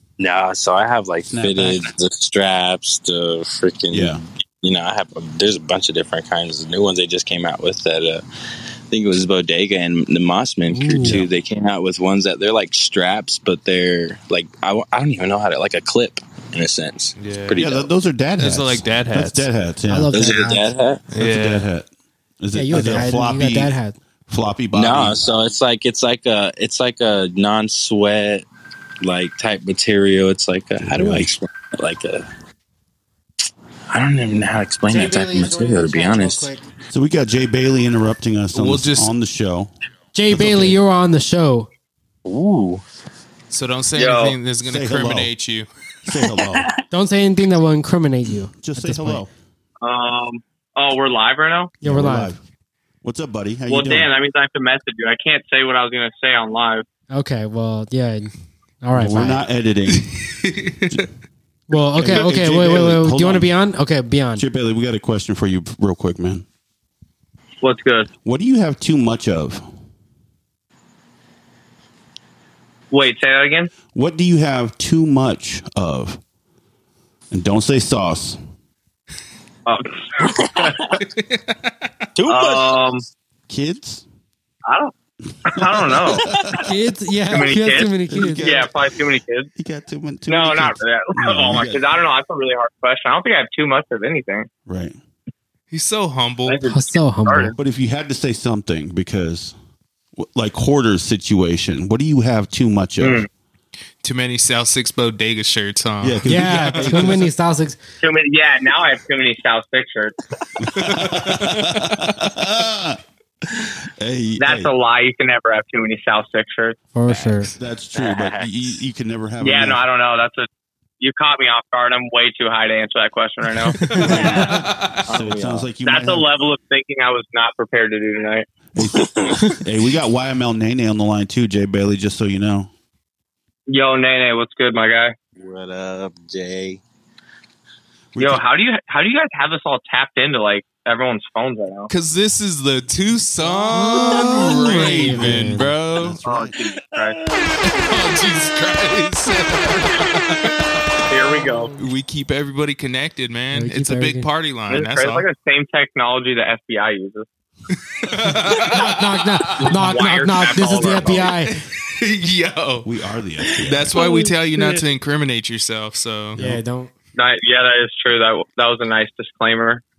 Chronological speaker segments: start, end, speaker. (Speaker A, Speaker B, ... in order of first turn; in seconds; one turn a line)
Speaker A: 0.2-8.2
Speaker B: 1.2-1.9
Speaker B: 3.9-4.2
Speaker A: 8.9-17.9
Speaker C: 10.7-11.2
Speaker B: 11.0-11.3
Speaker D: 17.2-17.7
Speaker B: 17.6-20.2
Speaker D: 18.4-19.5
Speaker C: 19.9-20.7
Speaker A: 20.1-21.1
Speaker D: 21.1-21.7
Speaker B: 21.1-21.9
Speaker B: 22.4-25.3
Speaker C: 22.5-24.0
Speaker A: 24.7-28.4
Speaker A: 29.0-32.2
Speaker B: 30.8-31.3
Speaker A: 33.9-36.5
Speaker C: 34.9-36.6
Speaker B: 36.9-39.7
Speaker D: 38.5-39.1
Speaker C: 40.1-41.7
Speaker B: 40.3-40.8
Speaker A: 42.2-42.8
Speaker D: 43.5-45.7
Speaker E: 43.9-44.4
Speaker B: 44.6-45.3
Speaker B: 46.0-46.7
Speaker A: 46.3-46.8
Speaker C: 46.9-49.2
Speaker B: 48.5-49.3
Speaker E: 49.8-51.7
Speaker C: 51.8-52.3
Speaker B: 51.8-52.4
Speaker B: 53.0-54.1
Speaker E: 53.7-56.8
Speaker C: 57.1-59.4
Speaker B: 58.9-60.1
Speaker D: 59.9-61.0
Speaker C: 61.7-64.4
Speaker B: 62.0-63.5
Speaker B: 64.3-66.5
Speaker E: 67.6-68.1
Speaker B: 68.2-69.6
Speaker E: 72.9-73.7
Speaker B: 73.9-76.2
Speaker B: 77.3-78.4
Speaker E: 79.7-80.3
Speaker A: 80.2-80.9
Speaker D: 81.0-81.7
Speaker A: 82.2-82.9
Speaker E: 82.3-83.0
Speaker B: 83.5-84.0
Speaker E: 85.5-86.2
Speaker B: 85.6-86.6
Speaker C: 86.5-88.6
Speaker E: 87.3-89.5
Speaker B: 88.0-88.8
Speaker B: 89.6-91.9
Speaker E: 90.3-94.5
Speaker B: 94.7-95.0
Speaker D: 95.7-96.6
Speaker E: 96.5-97.5
Speaker C: 96.7-97.5
Speaker B: 97.6-99.5
Speaker B: 100.2-103.2
Speaker E: 103.0-103.3
Speaker D: 104.0-107.2
Speaker B: 106.0-107.3
Speaker C: 106.2-107.8
Speaker E: 108.0-110.1
Speaker B: 110.6-113.0
Speaker D: 110.8-111.6
Speaker B: 113.6-114.7
Speaker E: 114.4-116.8
Speaker C: 116.9-117.5
Speaker B: 117.6-119.8
Speaker A: 117.9-118.8
Speaker E: 119.4-120.5
Speaker E: 121.0-124.5
Speaker C: 123.7-124.3
Speaker B: 123.9-126.3
Speaker D: 124.0-125.0
Speaker E: 125.1-128.4
Speaker B: 128.8-132.7
Speaker A: 128.8-129.4
Speaker E: 133.7-135.1
Speaker A: 135.4-136.8
Speaker B: 138.1-138.4
Speaker E: 138.2-141.9
Speaker D: 141.9-146.2
Speaker B: 143.5-146.6
Speaker C: 144.6-145.8
Speaker E: 146.2-147.2
Speaker D: 147.6-151.0
Speaker E: 151.1-151.7
Speaker D: 151.8-155.2
Speaker C: 153.5-154.3
Speaker E: 154.7-157.2
Speaker D: 157.7-159.8
Speaker C: 158.6-161.5
Speaker E: 159.6-161.3
Speaker D: 161.5-162.9
Speaker B: 162.8-164.0
Speaker D: 163.5-166.4
Speaker A: 164.0-164.6
Speaker B: 166.3-166.6
Speaker C: 166.4-166.9
Speaker E: 167.2-169.8